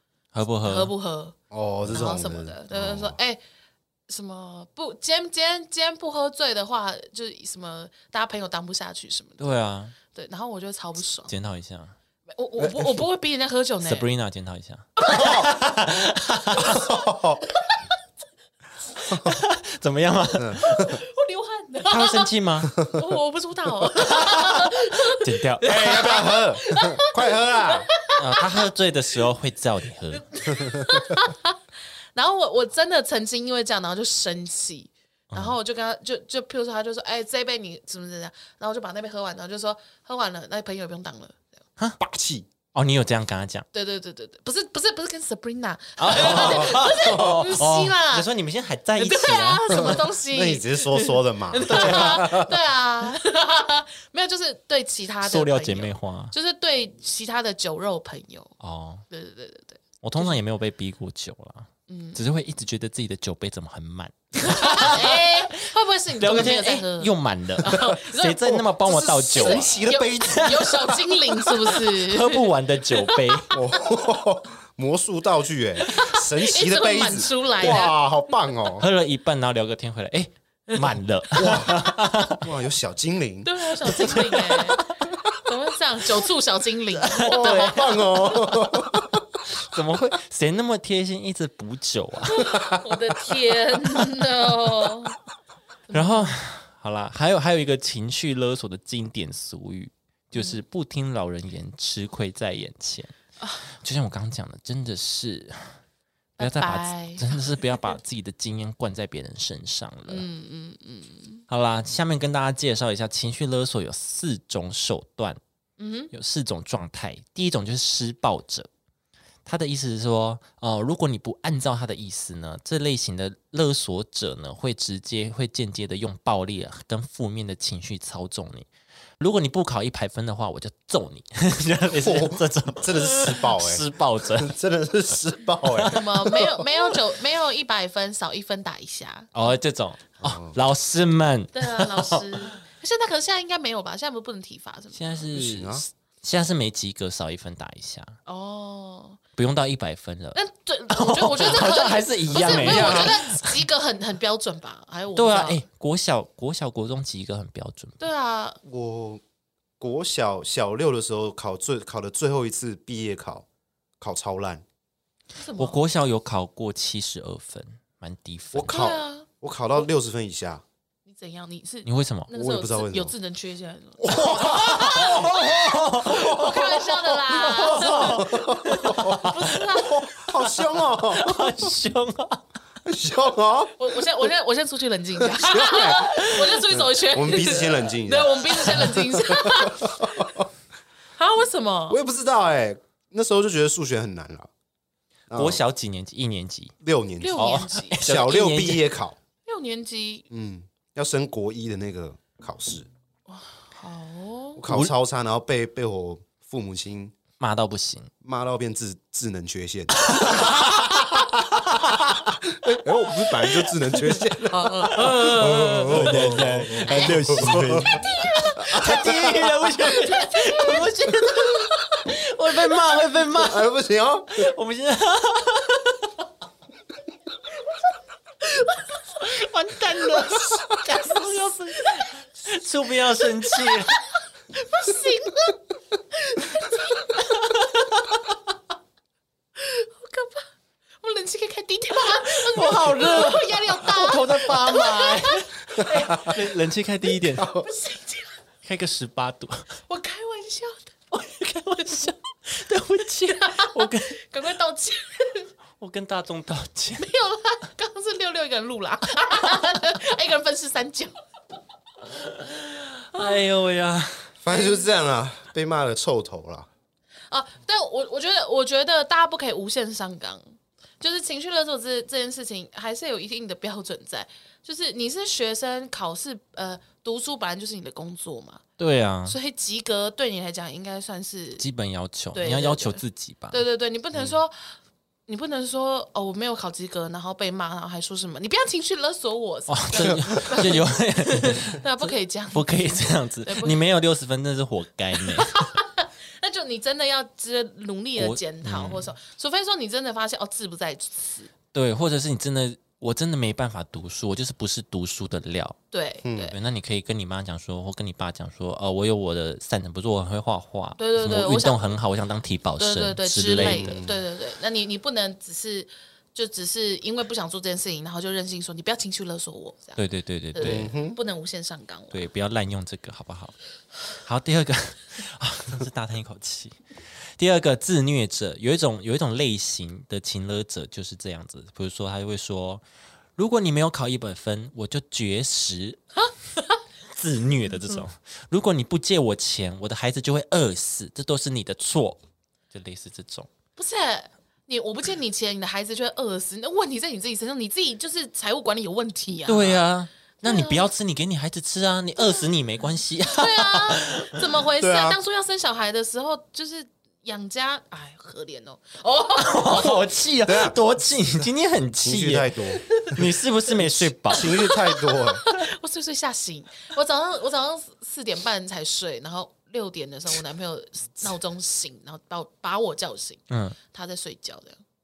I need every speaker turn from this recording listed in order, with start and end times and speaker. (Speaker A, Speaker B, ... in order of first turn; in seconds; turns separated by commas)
Speaker A: 0.3-0.9, Speaker B: 0.6-3.4, Speaker C: 1.5-3.2, Speaker B: 4.1-9.6, Speaker A: 9.4-9.9, Speaker B: 10.1-11.3, Speaker A: 11.3-11.9, Speaker B: 12.3-14.1, Speaker C: 12.6-12.9, Speaker A: 13.8-16.9, Speaker B: 15.0-15.5, Speaker C: 16.6-17.4, Speaker A: 19.1-20.6, Speaker C: 20.4-20.9, Speaker B: 20.6-28.6, Speaker A: 21.9-22.8, Speaker A: 24.1-26.2, Speaker C: 25.6-27.9, Speaker A: 28.1-30.4, Speaker B: 30.3-31.6, Speaker C: 30.6-31.0, Speaker B: 32.1-41.4, Speaker A: 35.3-35.6, Speaker C: 42.0-42.5, Speaker A: 42.7-43.7, Speaker B: 43.7-48.3, Speaker A: 46.0-50.0, Speaker C: 46.1-47.5, Speaker B: 49.0-58.5, Speaker C: 49.7-52.5, Speaker A: 51.6-52.3, Speaker A: 55.2-56.3, Speaker A: 58.6-59.0, Speaker B: 59.1-60.4, Speaker A: 60.0-65.4, Speaker B: 61.9-62.2, Speaker B: 64.4-68.6, Speaker A: 66.2-73.5, Speaker C: 68.6-70.7, Speaker B: 69.3-73.5, Speaker C: 73.5-78.8, Speaker B: 75.8-78.0, Speaker A: 78.8-82.5, Speaker C: 81.3-84.2, Speaker B: 83.4-84.9, Speaker A: 83.9-84.9, Speaker B: 85.4-88.5, Speaker A: 87.0-88.7, Speaker C: 87.2-89.4, Speaker A: 89.4-92.5, Speaker B: 92.3-95.2, Speaker C: 92.5-92.9, Speaker B: 95.9-96.4, Speaker A: 95.9-103.1, Speaker B: 100.3-100.6, Speaker A: 103.7-105.8, Speaker B: 106.4-107.9, Speaker A: 106.4-110.3, Speaker B: 110.1-111.4, Speaker A: 111.5-115.4, Speaker B: 115.8-116.1, Speaker A: 116.1-118.7, Speaker A: 119.5-128.7, Speaker A: 129.2-134.5, Speaker C: 132.0-136.5, Speaker A: 135.6-136.4, Speaker B: 135.9-139.5, Speaker A: 139.3-142.4, Speaker C: 140.2-140.6, Speaker B: 141.5-145.2, Speaker A: 144.9-148.2, Speaker C: 145.3-145.8, Speaker B: 148.2-149.2, Speaker A: 149.3-153.6, Speaker B: 150.3-155.6, Speaker C: 152.3-153.2, Speaker A: 155.1-158.0, Speaker B: 158.0-158.6, Speaker C: 158.6-159.2, Speaker C: 159.8-163.4, Speaker C: 164.0-164.6, Speaker B: 165.3-165.8, Speaker A: 165.6-168.9, Speaker C: 168.5-170.6, Speaker B: 168.7-169.3, Speaker B: 171.1-180.2, Speaker A: 171.8-172.3, Speaker C: 172.3-173.1, Speaker C: 174.0-176.7, Speaker A: 174.2-180.2, Speaker C: 177.3-181.7, Speaker A: 181.0-182.4, Speaker C: 182.8-184.2, Speaker B: 183.8-190.3, Speaker C: 185.2-190.5, Speaker A: 185.9-186.5, Speaker B: 191.2-192.0, Speaker C: 191.9-194.5, Speaker C: 195.3-195.6, Speaker A: 195.3-196.7, Speaker C: 196.8-199.2, Speaker B: 197.2-198.0, Speaker A: 197.3-198.8, Speaker B: 199.4-200.3, Speaker C: 200.3-202.9, Speaker B: 203.3-204.6, Speaker C: 204.6-207.1, Speaker A: 204.7-204.9, Speaker A: 207.4-208.1, Speaker C: 208.2-211.0, Speaker A: 210.1-211.1, Speaker C: 212.4-219.5, Speaker B: 214.4-217.2, Speaker A: 215.0-223.7, Speaker B: 217.9-219.0, Speaker B: 219.8-220.9, Speaker B: 221.4-222.0, Speaker C: 223.3-224.5, Speaker A: 224.3-226.1, Speaker A: 229.1-234.0, Speaker B: 230.1-232.0, Speaker B: 233.4-233.9, Speaker B: 234.5-237.6, Speaker B: 239.6-240.4, Speaker B: 241.0-246.4, Speaker A: 242.1-247.5, Speaker C: 247.4-247.7, Speaker B: 247.4-248.3, Speaker A: 248.6-249.7, Speaker B: 249.9-251.0, Speaker A: 251.1-254.2, Speaker B: 251.8-252.1, Speaker B: 253.2-255.5, Speaker A: 255.8-257.1, Speaker B: 257.0-261.1, Speaker A: 262.1-264.3, Speaker C: 264.4-266.7, Speaker B: 264.5-264.8, Speaker B: 267.3-278.6, Speaker A: 278.8-279.4, Speaker B: 279.2-281.6, Speaker A: 281.6-283.6, Speaker B: 282.3-284.8, Speaker B: 285.3-293.8, Speaker A: 289.7-295.6, Speaker B: 295.3-301.5, Speaker A: 298.2-299.1, Speaker A: 301.7-305.8, Speaker B: 305.9-306.5, Speaker C: 306.2-306.5, Speaker A: 306.5-314.0, Speaker B: 311.0-311.9, Speaker B: 312.8-320.0, Speaker C: 313.6-314.2, Speaker A: 320.0-320.9, Speaker B: 320.5-322.2, Speaker C: 320.6-321.2, Speaker A: 322.1-323.6, Speaker A: 324.1-326.8, Speaker A: 327.3-332.8, Speaker A: 333.4-336.0, Speaker B: 336.2-336.8, Speaker A: 337.1-342.2, Speaker A: 342.7-343.5, Speaker B: 343.8-349.9, Speaker A: 349.5-354.4, Speaker B: 350.4-350.9, Speaker B: 353.3-359.9, Speaker C: 354.8-355.2, Speaker A: 359.4-364.6, Speaker C: 360.4-360.8, Speaker C: 362.0-365.4, Speaker B: 364.3-374.8, Speaker A: 373.5-373.8